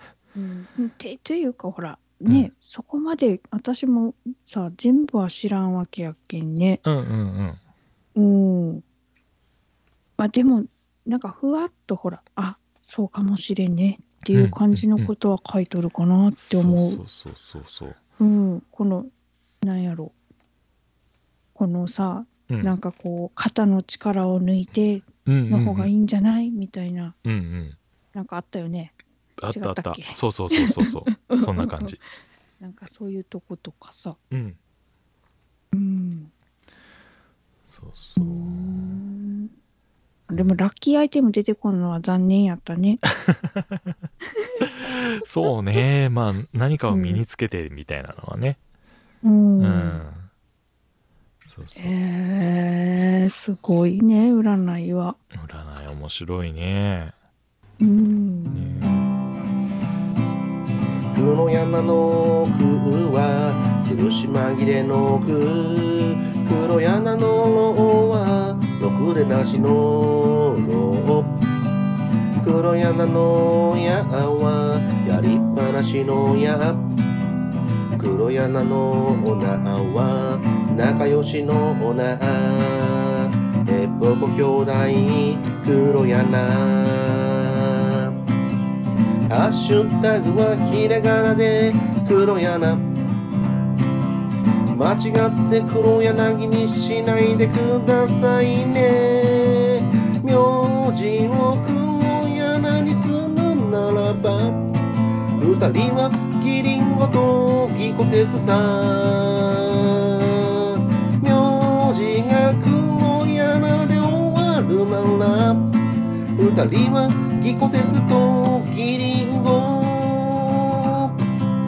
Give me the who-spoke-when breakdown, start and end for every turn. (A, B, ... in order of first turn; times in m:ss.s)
0:00.3-0:06.8 A
0:06.8-0:07.6 B
0:08.2-0:08.8 A
0:10.2-0:17.0 A
0:14.3-0:15.1 B
0:16.4-0:18.0 B
0:18.2-0:19.1 A
0:19.6-0:20.1 A
0:21.5-0:27.2 A
0:22.5-0:22.7 B
0:25.2-0:25.9 B
0:27.2-0:27.8 B
0:28.1-0:28.9 A
0:29.4-0:32.0 B
0:29.5-0:31.9 A
0:32.6-0:34.2 A
0:34.3-0:34.6 B
0:35.7-0:36.3 A
0:37.7-0:39.0 B
0:38.2-0:39.5 A
0:40.3-0:43.0 A
0:40.3-0:40.6 B
0:43.2-0:43.9 B
0:44.6-0:48.6 B
0:46.9-0:47.2 A
0:49.2-0:50.0 A
0:49.6-0:50.2 B
0:51.5-0:51.9 B
0:51.8-0:55.2 A
0:55.3-0:57.1 B
0:57.8-0:58.9 A
0:58.5-0:59.1 B
1:01.1-1:11.4 C
1:12.4-1:16.9 C
1:18.0-1:28.2 C
1:29.3-1:32.8 C
1:34.7-1:44.6 C
1:45.4-1:55.7 C
1:56.4-2:01.2 C